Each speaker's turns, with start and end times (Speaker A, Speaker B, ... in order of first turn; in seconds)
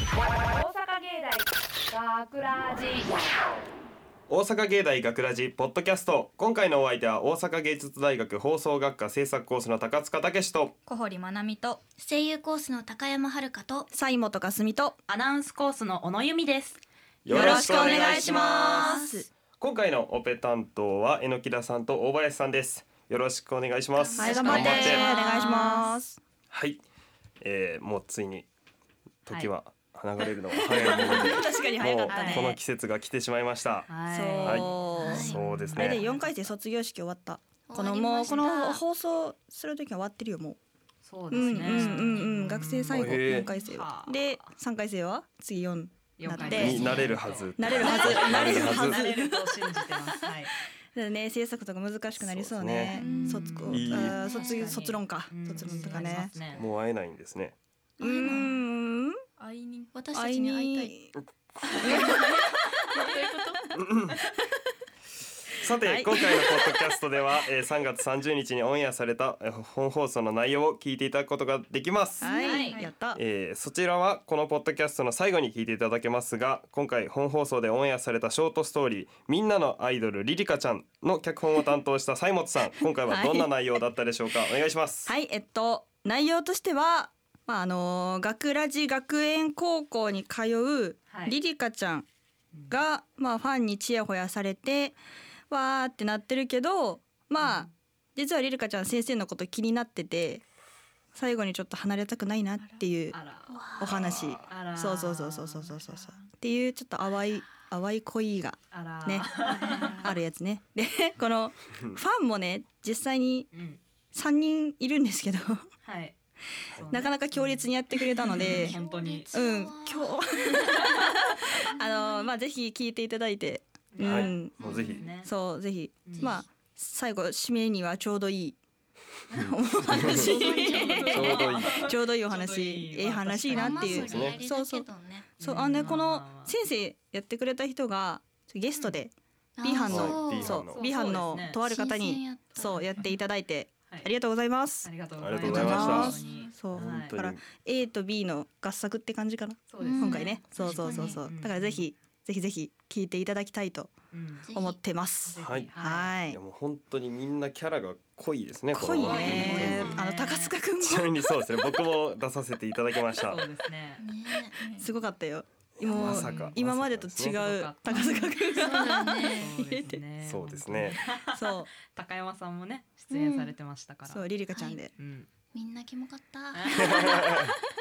Speaker A: 0.5-3.1
Speaker B: 4.3-10.7, 17.2-18.9, 19.6-25.1, 26.5-26.8, 27.4-28.5, 29.3-33.9, 34.4-36.0, 42.9-43.5, 46.5-49.0, 52.2-53.0, 53.7-54.2, 56.5-57.6, 63.7-64.2, 65.6-72.3, 73.2-85.1, 104.0-104.4, 124.0-125.0, 131.1-131.8, 134.0-134.3, 139.9-140.7, 145.2-146.2, 146.7-147.4, 155.4-155.7, 156.3-160.0, 160.8-163.4, 165.8-167.4, 170.2-171.0, 177.0-177.5
Speaker C: 10.9-11.8, 53.0-53.6, 59.4-60.0, 102.6-102.8, 109.6-109.9, 145.8-146.5, 164.6-164.8
Speaker D: 12.0-13.9, 17.4-19.2, 24.0-25.4, 35.0-35.4, 37.7-38.8, 54.0-54.8, 58.0-58.5, 59.9-60.9, 61.7-62.4, 62.9-63.7, 103.5-104.0, 118.6-120.2, 121.8-122.3, 124.6-125.0, 130.2-131.2, 133.5-135.3, 139.6-140.6, 141.6-142.8, 149.8-151.2, 154.5-154.8, 164.0-164.6, 167.9-169.6, 173.1-173.5, 174.5-174.8, 175.5-177.5
Speaker E: 13.9-15.0, 17.3-19.3, 24.2-26.2, 30.5-32.6, 34.1-40.6, 41.3-47.0, 47.6-56.3, 58.0-59.2, 60.1-61.1, 61.7-63.7, 65.8-66.9, 72.2-73.2, 83.0-83.5, 85.1-92.1, 92.7-95.0, 95.5-100.4, 101.1-103.2, 103.8-109.3, 109.9-113.5, 114.1-115.7, 116.9-118.8, 119.3-128.6, 129.4-134.9, 135.4-153.9, 154.5-156.4, 158.7-161.2, 164.8-170.0, 171.2-171.7, 174.1-174.9
Speaker F: 15.1-16.8, 24.3-25.9, 30.7-31.5, 32.1-32.5, 33.9-36.2, 41.0-44.4, 46.2-50.5, 53.0-56.6, 72.4-72.8, 91.1-91.4, 97.4-97.7, 103.1-103.9, 104.5-105.7, 108.7-110.1, 113.5-113.8, 115.8-116.2, 116.7-117.7, 118.2-119.3, 123.9-125.3, 126.1-126.4, 129.3-134.3, 135.4-136.5, 140.7-141.6, 142.6-143.1, 144.8-147.1, 149.7-151.8, 154.1-154.5, 155.3-156.1, 158.9-160.5, 163.2-164.0, 165.9-166.6, 167.3-174.3, 175.0-175.3, 176.5-177.1